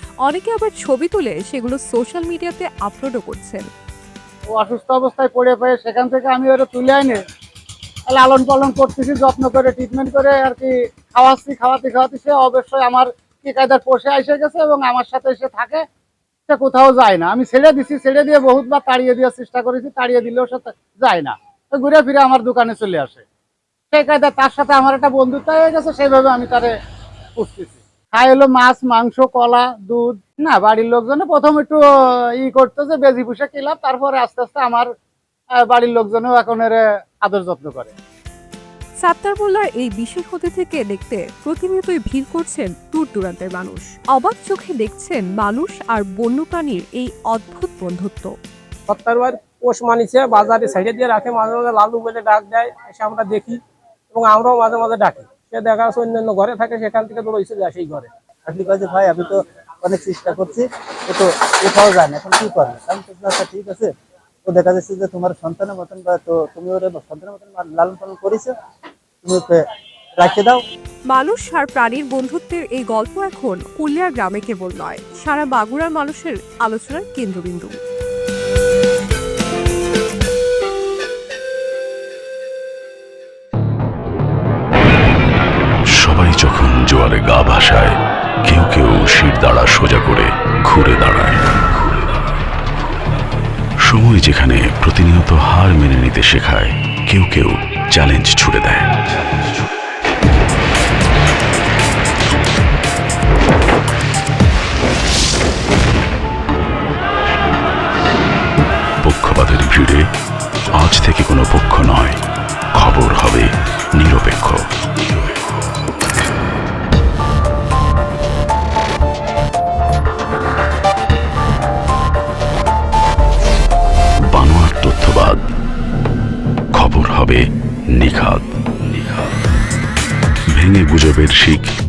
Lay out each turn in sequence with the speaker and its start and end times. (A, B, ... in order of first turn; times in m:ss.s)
0:00.2-0:03.7 A
0:04.5-0:07.2 B
0:08.1-0:15.8 B
0:16.5-0:23.2 B
0:23.9-0:26.7 B
0:27.4-0:31.8 B
0:32.4-0:34.9 B
0:35.6-0:37.9 B
0:39.0-0:48.3 A
0:48.9-0:53.6 C
0:54.1-0:58.1 C
0:58.4-1:03.9 D
1:04.4-1:08.5 D
1:09.2-1:09.6 D
1:10.2-1:10.6 D
1:11.1-1:17.7 A
1:26.0-1:27.9 E
1:28.4-1:31.4 E
1:33.8-1:38.9 E
1:49.0-1:50.0 E
1:50.8-1:52.2 E
1:52.8-1:54.6 E
2:04.3-2:05.4 E
2:06.7-2:07.4 E
2:08.0-2:08.5 E
2:10.5-2:11.7 E